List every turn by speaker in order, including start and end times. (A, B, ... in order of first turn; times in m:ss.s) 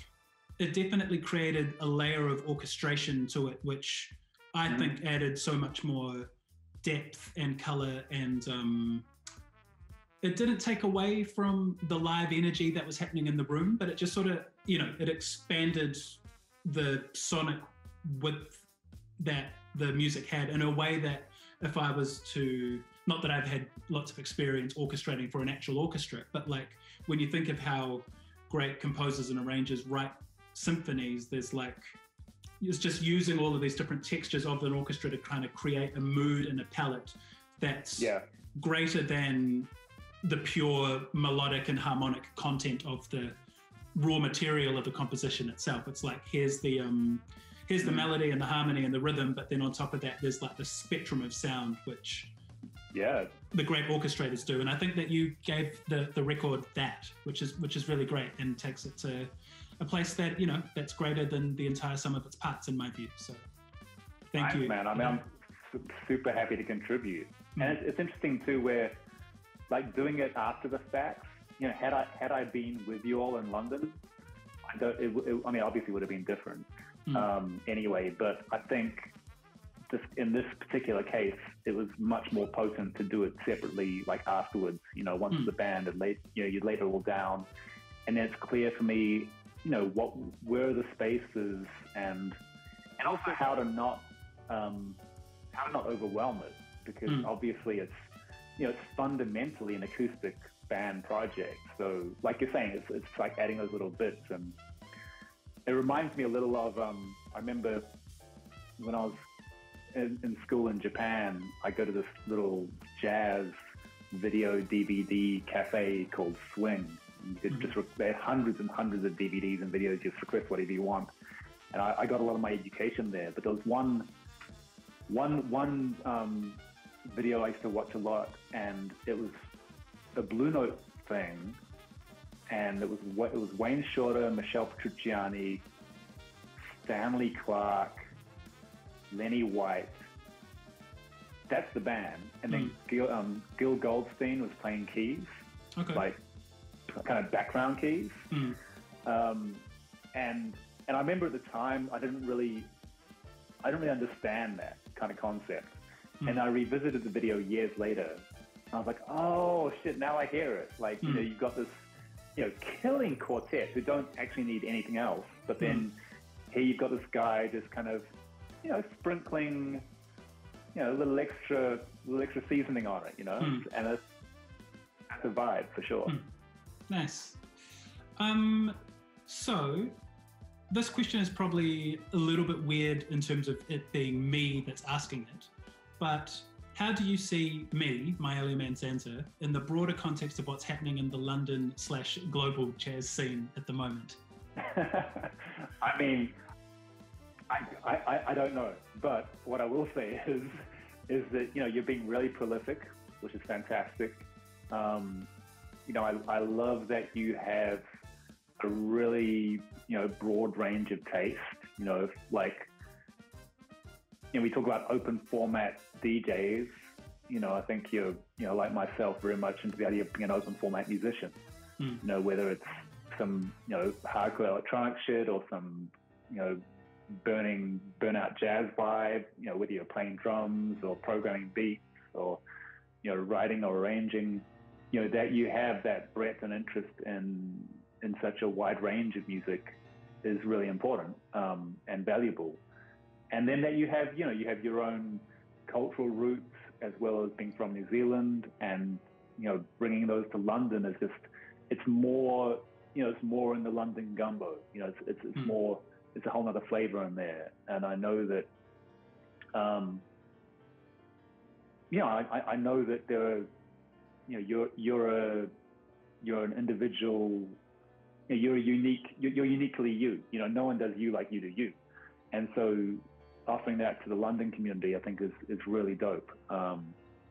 0:00.6-0:09.1 A
0:10.2-0:18.7 A
0:19.2-0:32.0 A
0:32.6-0:39.7 A
0:38.0-0:38.2 B
0:40.2-0:43.4 A
0:43.9-0:52.3 A
0:47.8-0:48.1 B
0:52.9-0:53.3 B
0:53.5-1:03.4 A
1:04.3-1:05.2 A
1:04.4-1:09.0 B
1:09.7-1:14.0 B
1:14.7-1:19.1 B
1:19.9-1:27.5 B
1:28.1-1:32.4 B
1:33.0-1:35.0 B
1:35.5-1:44.6 B
1:45.7-1:47.9 B
1:48.8-1:49.2 B
1:49.9-1:53.6 B
1:54.1-2:01.1 B
2:01.7-2:04.1 B
2:05.1-2:09.4 B
2:10.2-2:11.6 B
2:12.5-2:15.7 B
2:16.7-2:18.1 B
2:19.1-2:20.0 B
2:21.5-2:25.3 B
2:22.5-2:22.8 A
2:25.8-2:26.0 A
2:25.9-2:26.2 B
2:26.9-2:28.3 B
2:28.3-2:28.6 A
2:29.0-2:32.7 B
2:33.6-2:46.0 B
2:46.5-2:48.1 B
2:48.6-2:49.9 B
2:50.7-2:54.1 B
2:53.4-2:53.7 A
2:55.1-2:56.2 B
2:56.9-2:57.4 A
2:58.2-3:00.0 A
3:00.7-3:14.2 A
3:14.6-3:16.4 B
3:17.5-3:25.3 B
3:25.9-3:27.8 B
3:28.6-3:32.7 B
3:34.3-3:36.7 B
3:37.3-3:41.4 B
3:42.0-3:52.4 B
3:53.0-4:02.6 B
4:03.3-4:18.5 B
4:19.5-4:20.0 B
4:21.9-4:23.5 B
4:24.3-4:25.5 B
4:26.2-4:27.6 B
4:28.3-4:31.8 B
4:32.3-4:37.0 B